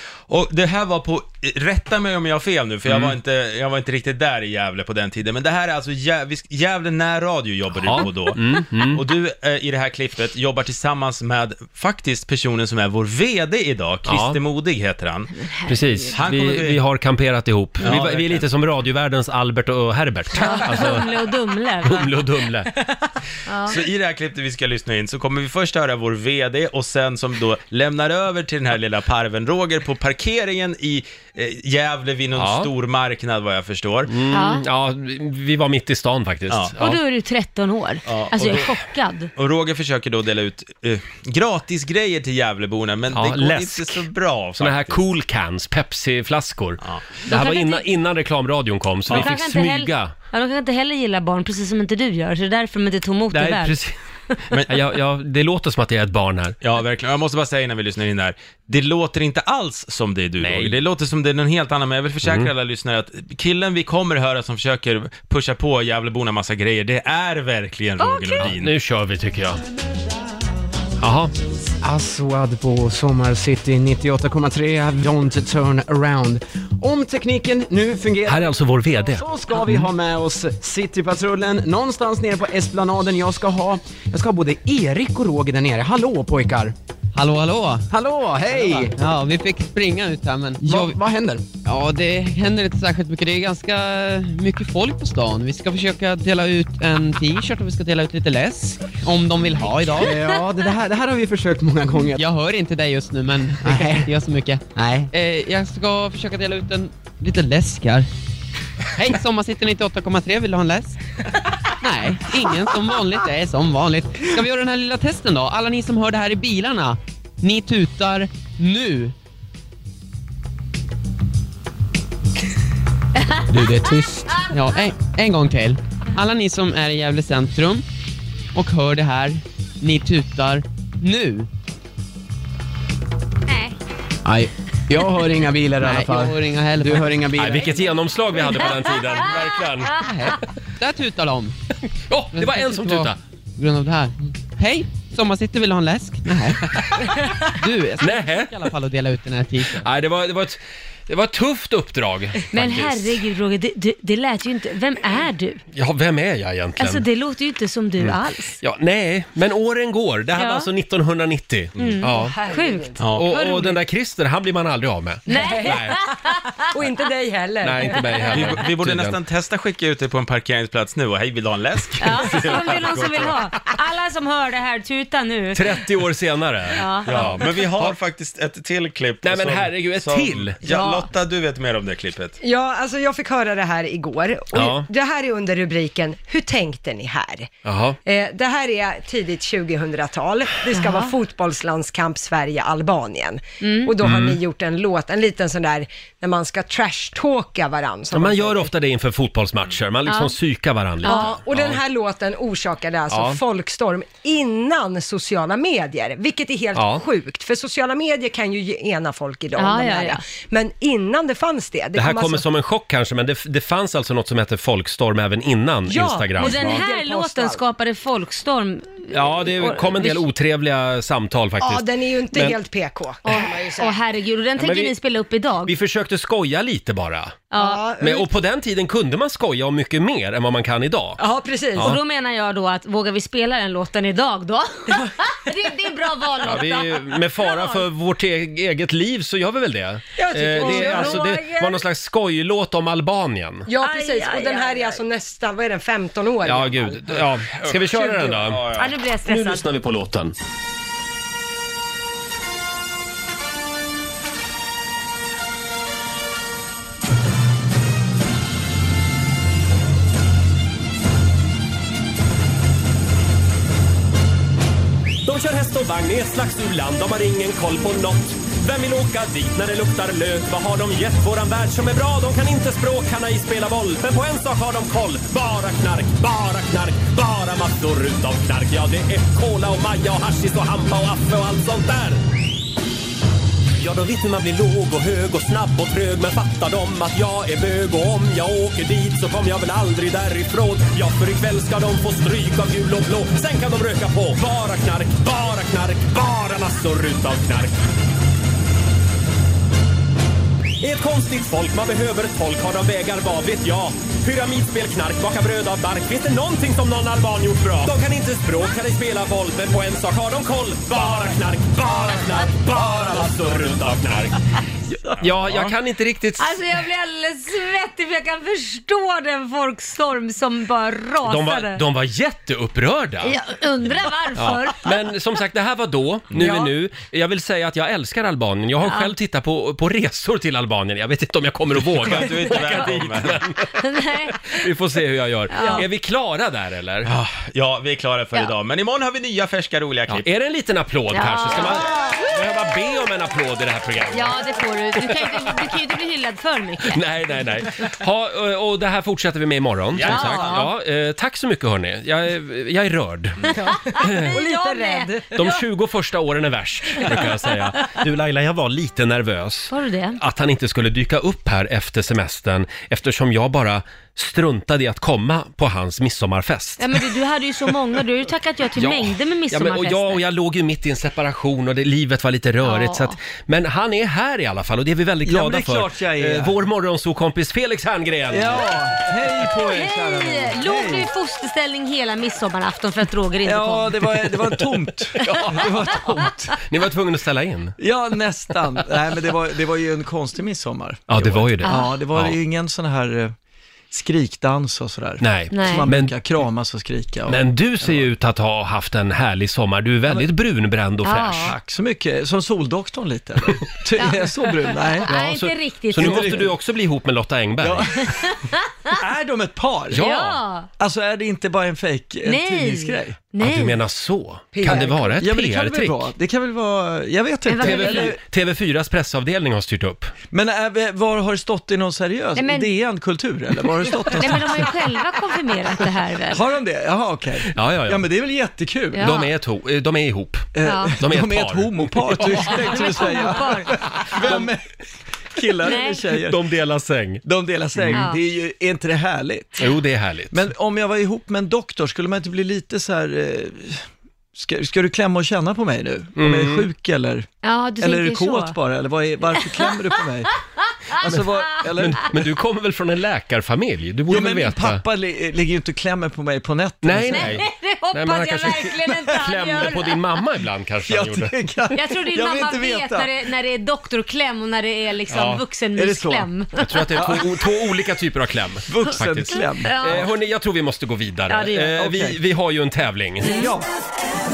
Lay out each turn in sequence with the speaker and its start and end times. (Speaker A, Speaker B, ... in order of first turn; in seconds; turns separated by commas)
Speaker A: 0.3-8.4, Speaker B: 2.9-3.1, Speaker B: 7.8-9.0, Speaker A: 8.9-15.3, Speaker B: 14.1-14.4, Speaker C: 15.4-16.1, Speaker B: 15.7-21.1, Speaker A: 16.1-16.8, Speaker A: 17.8-18.4, Speaker C: 20.3-22.1, Speaker B: 21.8-22.7, Speaker C: 23.5-23.8, Speaker A: 23.6-34.1, Speaker B: 32.4-32.7, Speaker B: 34.1-37.0, Speaker C: 34.3-34.6, Speaker C: 36.8-39.3, Speaker A: 38.1-38.7, Speaker A: 39.4-45.0, Speaker B: 43.1-50.1, Speaker A: 46.8-47.1, Speaker C: 47.3-47.9, Speaker C: 49.1-53.7, Speaker B: 53.3-53.9, Speaker B: 54.7-56.6, Speaker A: 56.6-68.7, Speaker B: 60.4-60.8, Speaker B: 62.2-62.5, Speaker C: 68.0-68.5, Speaker B: 68.4-69.6, Speaker B: 71.0-71.3, Speaker D: 71.8-86.7, Speaker B: 78.2-79.2, Speaker E: 87.1-87.9, Speaker D: 87.9-89.0, Speaker E: 88.5-91.0, Speaker D: 90.6-91.5, Speaker E: 91.6-100.2, Speaker D: 99.9-102.2, Speaker E: 102.1-108.1, Speaker D: 103.6-104.1, Speaker D: 104.8-105.0, Speaker E: 109.0-111.0, Speaker E: 111.8-119.1, Speaker C: 123.2-123.4, Speaker D: 123.5-124.4, Speaker E: 124.5-127.8, Speaker E: 128.5-131.5, Speaker C: 133.5-133.7, Speaker D: 134.2-137.8, Speaker E: 135.8-137.2, Speaker B: 137.3-140.0, Speaker C: 138.4-139.4, Speaker E: 140.0-141.5, Speaker B: 142.1-143.2, Speaker E: 142.3-149.8, Speaker B: 148.0-148.6, Speaker B: 149.8-153.2, Speaker C: 152.5-155.6, Speaker B: 155.7-157.1, Speaker C: 156.8-158.6, Speaker B: 158.0-162.3, Speaker C: 160.3-160.7, Speaker C: 161.8-163.8, Speaker F: 162.1-163.0, Speaker A: 163.0-163.2, Speaker B: 163.1-166.0, Speaker C: 165.3-166.6, Speaker F: 165.3-166.0, Speaker F: 166.7-168.2, Speaker B: 167.6-169.2, Speaker A: 168.3-173.4, Speaker C: 172.0-175.7, Speaker B: 175.5-178.0, Speaker C: 176.7-177.3, Speaker A: 177.1-182.4, Speaker B: 179.2-180.6, Speaker C: 180.6-181.1, Speaker F: 182.4-187.5, Speaker B: 184.5-184.9, Speaker B: 187.6-188.0, Speaker F: 188.0-198.7, Speaker C: 190.7-191.1, Speaker C: 193.6-193.9, Speaker B: 194.0-194.4, Speaker B: 198.1-201.8, Speaker C: 200.1-200.3, Speaker C: 201.0-201.3, Speaker F: 201.0-212.4, Speaker B: 203.1-203.4, Speaker B: 206.7-207.0, Speaker C: 209.6-210.2, Speaker B: 211.9-216.8, Speaker F: 215.9-217.6, Speaker C: 216.4-220.3, Speaker B: 219.1-222.6, Speaker F: 221.6-224.0, Speaker C: 223.2-225.7, Speaker B: 224.6-224.9, Speaker B: 225.6-227.4, Speaker C: 227.5-227.9, Speaker F: 227.6-228.3, Speaker B: 228.0-231.2, Speaker F: 231.2-232.0, Speaker C: 231.8-237.8, Speaker B: 236.4-243.7, Speaker F: 240.2-241.3, Speaker C: 240.5-241.7, Speaker F: 243.7-247.0, Speaker C: 243.8-244.9, Speaker B: 246.4-248.7, Speaker F: 247.9-248.3, Speaker A: 248.4-248.8, Speaker C: 248.7-249.6, Speaker B: 249.2-250.3, Speaker B: 265.2-282.2, Speaker B: 283.8-297.8, Speaker B: 300.8-314.4, Speaker B: 315.2-316.6, Speaker C: 316.4-321.8, Speaker B: 321.2-323.4, Speaker C: 323.2-324.9, Speaker B: 324.3-333.7, Speaker C: 326.4-326.6, Speaker C: 328.8-329.1, Speaker A: 331.9-333.4, Speaker C: 333.7-334.6, Speaker B: 334.4-337.1, Speaker C: 335.5-335.9, Speaker A: 337.0-340.2, Speaker B: 340.1-344.4, Speaker C: 341.1-342.4, Speaker C: 344.1-347.0, Speaker B: 345.0-345.5, Speaker B: 346.9-354.3, Speaker A: 349.9-350.6, Speaker C: 350.0-350.7, Speaker F: 353.6-355.4, Speaker C: 353.8-355.5, Speaker B: 355.3-367.0, Speaker C: 359.7-360.2, Speaker C: 366.8-370.2, Speaker B: 368.8-378.7, Speaker C: 372.6-373.1, Speaker G: 375.2-376.6, Speaker G: 378.3-381.1, Speaker C: 379.6-384.2, Speaker G: 383.4-386.6, Speaker B: 385.2-386.0, Speaker B: 386.6-387.8, Speaker G: 387.8-393.3, Speaker B: 391.1-392.4, Speaker C: 391.6-391.9, Speaker G: 393.9-398.1, Speaker B: 395.2-396.1, Speaker C: 395.5-395.9, Speaker B: 397.3-401.5, Speaker C: 401.0-401.6, Speaker G: 401.4-405.2, Speaker C: 404.0-406.4, Speaker B: 405.1-407.9, Speaker G: 405.9-406.5, Speaker G: 407.6-408.1, Speaker C: 408.0-409.0, Speaker G: 408.9-410.0, Speaker B: 409.9-410.4, Speaker C: 410.0-410.7, Speaker G: 410.8-413.2, Speaker C: 412.2-413.8, Speaker B: 413.4-416.0, Speaker F: 414.5-414.9, Speaker G: 414.6-418.2, Speaker C: 417.5-418.1, Speaker B: 417.6-420.1, Speaker G: 420.3-425.0, Speaker C: 422.4-422.7, Speaker C: 423.9-426.4, Speaker G: 426.3-429.2, Speaker B: 427.5-428.0, Speaker C: 428.9-429.3, Speaker B: 429.0-430.5, Speaker G: 430.5-434.6, Speaker C: 430.6-431.0, Speaker B: 431.0-432.6, Speaker C: 432.2-434.4, Speaker G: 435.3-436.4, Speaker C: 435.6-436.1, Speaker B: 436.3-437.2, Speaker G: 437.2-439.7, Speaker B: 437.8-438.0, Speaker C: 437.9-438.2, Speaker B: 439.6-440.4, Speaker G: 440.3-447.3, Speaker B: 446.1-446.7, Speaker C: 447.4-448.6, Speaker G: 447.8-450.4, Speaker C: 449.4-451.6, Speaker G: 450.9-452.2, Speaker B: 451.0-454.8, Speaker G: 454.1-457.4, Speaker B: 456.8-461.3, Speaker C: 457.1-460.0, Speaker G: 460.9-463.1, Speaker C: 461.7-466.9, Speaker B: 465.1-465.4, Speaker G: 465.7-466.3, Speaker B: 466.6-473.4, Speaker G: 466.9-467.3, Speaker G: 468.7-470.1, Speaker C: 468.9-470.1, Speaker C: 471.3-471.7, Speaker G: 471.7-472.2, Speaker C: 473.2-473.5, Speaker G: 473.3-473.7